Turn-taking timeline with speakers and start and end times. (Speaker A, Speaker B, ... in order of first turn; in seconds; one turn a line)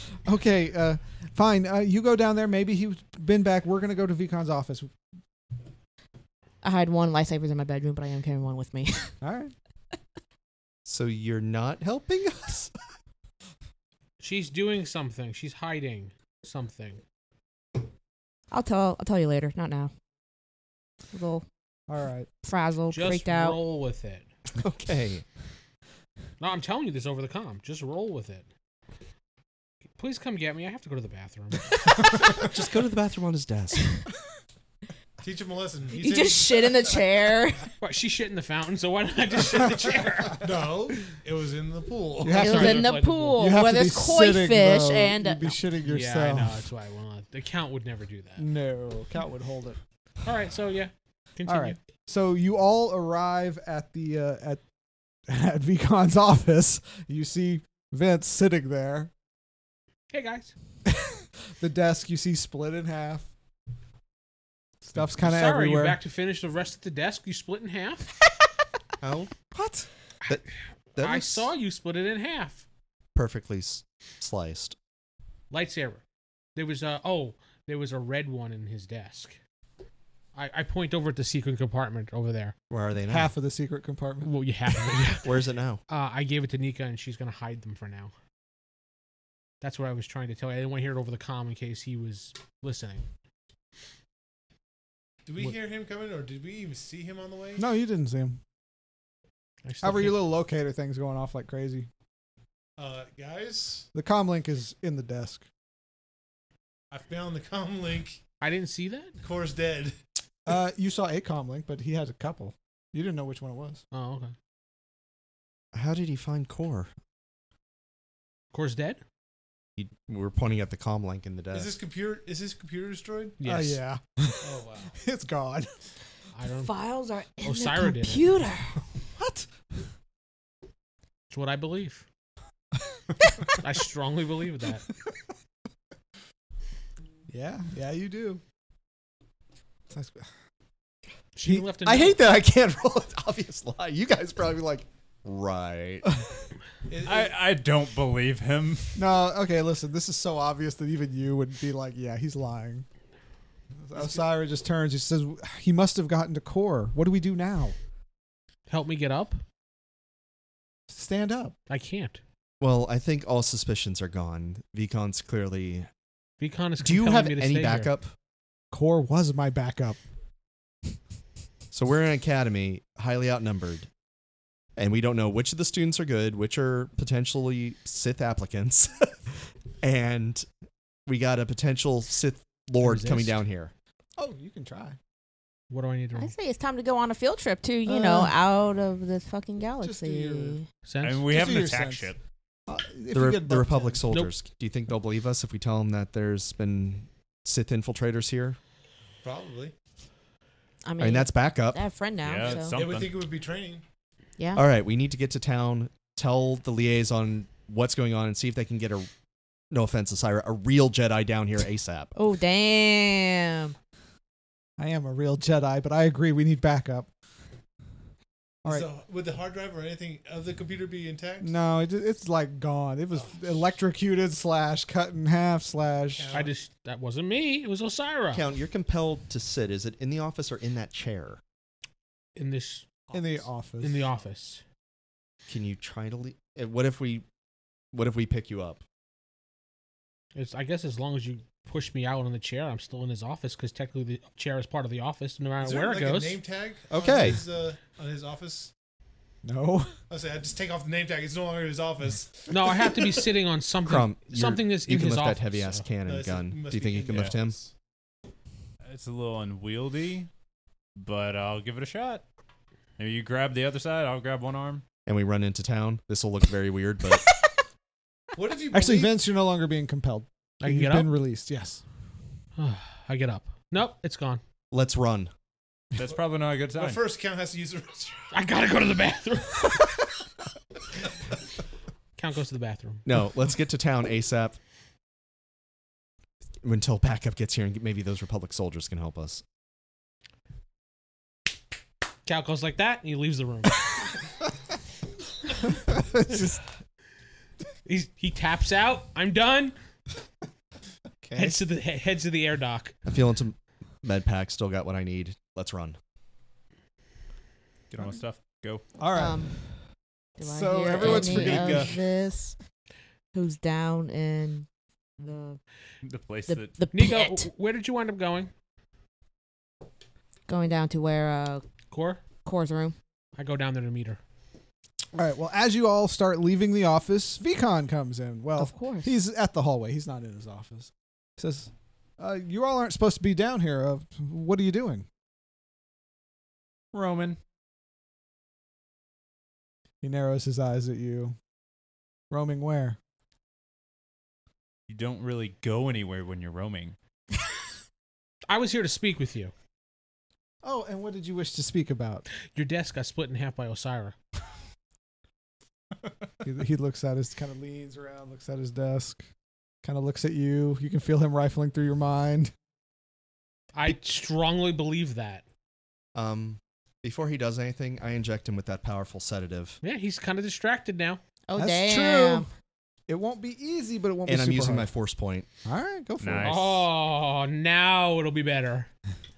Speaker A: 0.2-4.9
Speaker B: 6.6-9.1
Speaker A: 9.2-9.5
Speaker C: 10.8-12.7
Speaker D: 14.2-17.0
Speaker B: 18.5-19.9
Speaker B: 21.1-21.4
Speaker A: 21.9-22.3
Speaker B: 22.4-23.6
Speaker D: 22.9-24.3
Speaker C: 24.6-25.2
Speaker D: 26.4-28.5
Speaker D: 29.9-31.9
Speaker B: 31.7-32.4
Speaker C: 32.2-33.9
Speaker E: 35.2-36.8
Speaker B: 35.9-37.7
Speaker D: 37.8-40.5
Speaker E: 40.4-42.8
Speaker A: 42.2-46.6
Speaker B: 42.3-45.6
Speaker D: 42.3-43.4
Speaker D: 45.8-48.5
Speaker A: 48.4-49.8
Speaker D: 50.2-51.8
Speaker A: 51.4-54.6
Speaker A: 55.3-59.1
Speaker D: 60.1-60.5
Speaker A: 60.9-63.3
Speaker A: 64.9-66.0
Speaker D: 65.2-68.1
Speaker C: 69.0-69.5
Speaker A: 69.5-69.9
Speaker C: 71.0-71.5
Speaker D: 71.0-72.6
Speaker C: 73.1-74.8
Speaker D: 75.5-76.0
Speaker D: 76.5-79.4
Speaker D: 80.3-82.5
Speaker C: 82.7-83.3
Speaker A: 83.1-84.3
Speaker D: 84.2-85.3
Speaker C: 85.2-85.8
Speaker D: 85.9-88.1
Speaker D: 89.6-93.0
Speaker E: 95.2-97.6
Speaker A: 97.6-98.4
Speaker D: 99.6-100.3
Speaker A: 99.8-101.9
Speaker E: 102.8-103.9
Speaker A: 103.9-105.5
Speaker E: 106.9-108.2
Speaker D: 108.4-109.2
Speaker E: 109.2-110.0
Speaker A: 110.5-113.8
Speaker D: 113.9-114.3
Speaker C: 115.7-116.9
Speaker D: 118.5-119.0
Speaker C: 119.8-121.7
Speaker E: 121.5-123.4
Speaker D: 123.4-123.8
Speaker A: 123.4-125.7
Speaker E: 124.4-124.9
Speaker D: 126.3-126.7
Speaker B: 126.5-128.8
Speaker D: 127.4-128.3
Speaker A: 129.2-129.5
Speaker D: 131.3-132.0
Speaker D: 133.6-134.9
Speaker A: 137.3-138.4
Speaker A: 139.9-140.3
Speaker D: 141.3-142.2
Speaker C: 141.8-146.1
Speaker E: 146.9-147.3
Speaker F: 147.0-149.0
Speaker A: 148.9-152.8
Speaker A: 153.8-157.8
Speaker E: 153.9-154.2
Speaker D: 158.7-159.4
Speaker A: 160.9-161.5
Speaker D: 161.7-162.2
Speaker C: 162.6-165.9
Speaker D: 166.4-167.9
Speaker C: 166.8-168.1
Speaker A: 168.7-170.0
Speaker C: 171.7-173.9
Speaker C: 174.8-179.2
Speaker C: 179.8-180.4
Speaker C: 181.1-183.7
Speaker D: 182.8-183.4
Speaker A: 184.2-185.0
Speaker D: 185.7-186.3
Speaker B: 186.2-190.7
Speaker A: 187.8-188.3
Speaker A: 189.8-190.6
Speaker D: 190.8-191.4
Speaker F: 191.0-192.2
Speaker A: 191.3-192.1
Speaker A: 192.7-194.0
Speaker C: 193.1-198.6
Speaker E: 199.2-199.7
Speaker B: 200.8-202.8
Speaker C: 201.0-201.8
Speaker F: 202.2-203.2
Speaker E: 202.4-203.8
Speaker C: 204.5-209.1
Speaker C: 209.7-212.1
Speaker B: 212.2-213.7
Speaker A: 214.8-217.1
Speaker E: 218.7-221.5
Speaker A: 221.4-226.3
Speaker E: 223.1-223.6
Speaker E: 226.1-226.5
Speaker D: 226.3-228.4
Speaker C: 228.3-231.4
Speaker D: 232.3-234.6
Speaker A: 233.1-234.1
Speaker C: 235.5-237.2
Speaker C: 237.9-238.8
Speaker D: 240.3-246.4
Speaker E: 245.6-248.7
Speaker C: 246.9-247.4
Speaker A: 249.4-249.9
Speaker E: 250.1-252.9
Speaker D: 252.5-255.9
Speaker C: 253.8-257.6
Speaker E: 256.0-257.7
Speaker F: 257.1-257.4
Speaker F: 258.8-260.3
Speaker F: 260.9-262.2
Speaker F: 263.0-264.8
Speaker C: 265.1-267.3
Speaker E: 268.3-269.2
Speaker A: 268.7-271.8
Speaker D: 270.6-271.2
Speaker D: 272.6-274.4
Speaker C: 274.7-275.3
Speaker F: 275.9-277.0
Speaker E: 276.1-278.3
Speaker D: 278.3-279.9
Speaker D: 282.1-283.0
Speaker C: 283.1-284.6
Speaker C: 286.6-289.4
Speaker D: 292.2-293.8
Speaker A: 295.7-296.6
Speaker D: 297.8-299.7
Speaker A: 301.2-301.6
Speaker D: 301.3-302.9
Speaker C: 303.1-306.0
Speaker F: 307.9-308.8
Speaker A: 309.0-309.6
Speaker B: 309.1-309.5
Speaker B: 310.4-312.6
Speaker A: 310.4-311.9
Speaker F: 310.8-311.9
Speaker B: 313.3-314.7
Speaker B: 315.2-315.6
Speaker F: 316.0-316.7
Speaker B: 316.5-317.5
Speaker D: 316.9-318.5
Speaker B: 320.5-321.6
Speaker D: 321.9-322.2
Speaker B: 322.4-322.9
Speaker D: 323.4-324.2
Speaker A: 325.1-335.1
Speaker B: 328.6-329.1
Speaker F: 336.9-337.4
Speaker A: 340.0-341.4
Speaker A: 342.3-343.0
Speaker F: 344.9-346.9
Speaker D: 348.5-349.5
Speaker A: 350.6-352.2
Speaker D: 352.5-354.1
Speaker A: 356.4-359.2
Speaker A: 359.8-362.5
Speaker D: 363.7-365.4
Speaker C: 366.1-369.8
Speaker D: 369.8-371.2
Speaker B: 371.5-372.5
Speaker A: 371.6-372.5
Speaker A: 373.1-374.9
Speaker C: 374.3-375.5
Speaker A: 375.6-376.7
Speaker F: 376.2-376.7
Speaker D: 376.4-378.9